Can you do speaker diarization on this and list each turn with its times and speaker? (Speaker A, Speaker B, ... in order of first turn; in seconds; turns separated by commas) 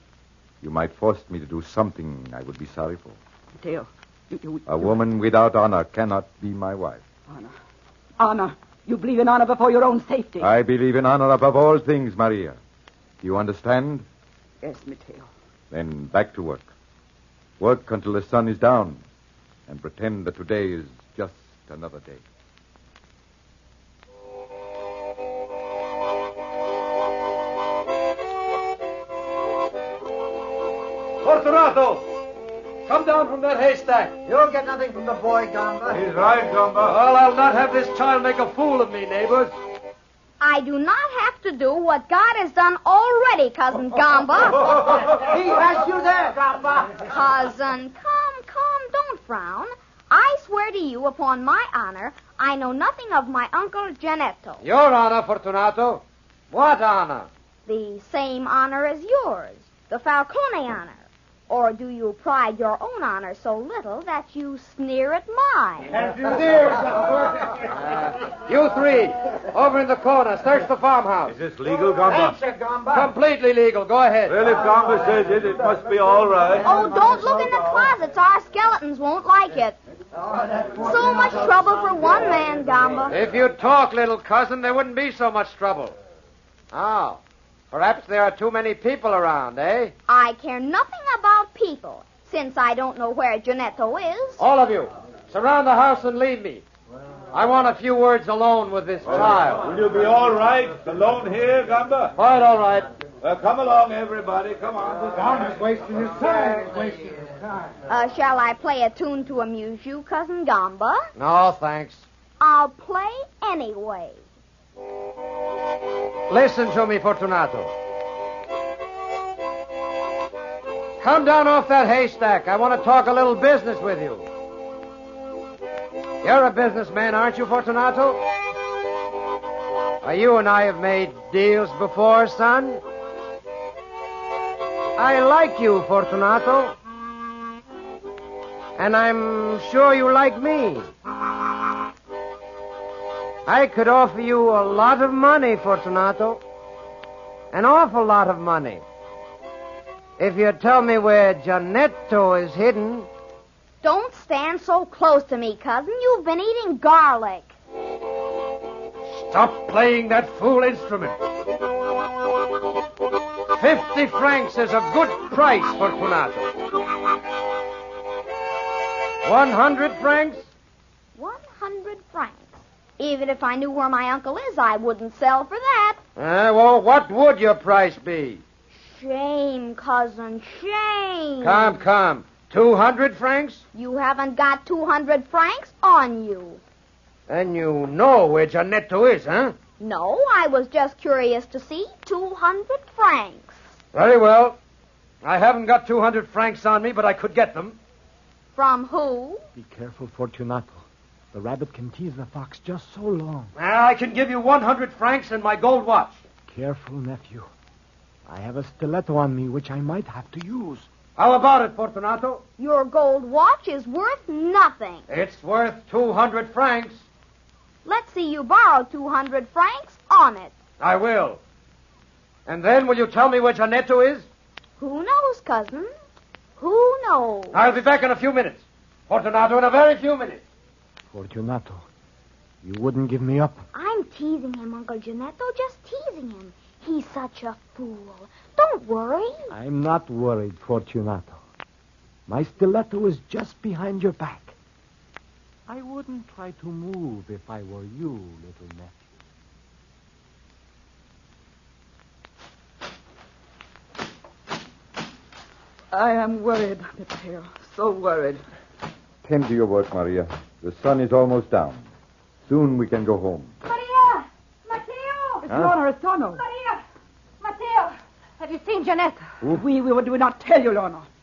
Speaker A: 0.6-3.2, Speaker B: 3.5-5.0, Speaker A: 4.7-7.0, Speaker B: 7.3-7.5, Speaker B: 8.2-10.5, Speaker A: 10.4-12.6, Speaker A: 13.2-14.1, Speaker B: 14.6-15.3, Speaker A: 15.7-16.7, Speaker A: 17.6-19.0, Speaker A: 19.7-22.2, Speaker C: 31.2-31.9, Speaker C: 32.9-34.2, Speaker D: 35.9-37.0, Speaker C: 36.8-39.6, Speaker E: 40.4-45.1, Speaker E: 47.0-54.6, Speaker C: 54.6-57.3, Speaker E: 57.7-65.9, Speaker D: 66.0-66.8, Speaker C: 67.7-71.4, Speaker D: 71.3-72.6, Speaker C: 72.9-74.4, Speaker D: 74.3-76.7, Speaker E: 76.6-79.8, Speaker E: 80.8-83.2, Speaker C: 83.1-86.0, Speaker C: 86.7-87.2, Speaker C: 87.7-89.9, Speaker E: 90.1-94.4, Speaker C: 94.4-96.6, Speaker C: 97.3-99.7, Speaker D: 99.1-102.2, Speaker C: 102.2-102.9, Speaker D: 103.2-105.8, Speaker C: 106.0-106.8, Speaker E: 107.9-111.0, Speaker C: 111.2-112.1, Speaker E: 112.4-114.2, Speaker C: 116.3-117.7, Speaker C: 121.0-124.3, Speaker C: 126.2-128.2, Speaker C: 130.0-132.8, Speaker C: 135.0-136.8, Speaker C: 138.8-140.9, Speaker C: 143.5-146.4, Speaker C: 147.5-148.8, Speaker C: 150.2-153.1, Speaker E: 153.8-157.5, Speaker C: 159.1-161.2, Speaker C: 163.6-166.5, Speaker C: 169.2-170.4, Speaker E: 171.2-176.0, Speaker C: 176.2-178.4, Speaker E: 178.8-181.8, Speaker C: 181.4-183.7, Speaker E: 183.7-186.6, Speaker C: 187.3-189.6, Speaker E: 189.8-193.6, Speaker C: 193.9-194.6, Speaker C: 195.2-197.8, Speaker E: 198.6-199.4, Speaker F: 199.6-203.5, Speaker C: 203.6-206.2, Speaker F: 206.5-207.5, Speaker F: 208.3-210.9, Speaker C: 211.2-212.4, Speaker E: 212.6-215.1, Speaker C: 215.1-217.0, Speaker E: 217.8-220.6, Speaker C: 220.8-221.4, Speaker C: 222.5-224.3, Speaker E: 224.8-225.9, Speaker E: 226.6-227.6, Speaker C: 227.5-230.4, Speaker F: 231.1-231.9, Speaker F: 232.6-233.6, Speaker E: 233.7-239.5, Speaker F: 239.5-241.4, Speaker F: 242.3-244.6, Speaker F: 245.7-249.0, Speaker B: 255.9-258.4, Speaker A: 259.2-261.8, Speaker A: 262.5-263.5, Speaker G: 263.6-265.5, Speaker B: 265.4-266.4, Speaker A: 265.5-265.8, Speaker G: 266.3-266.8, Speaker G: 267.4-269.2, Speaker B: 269.5-271.1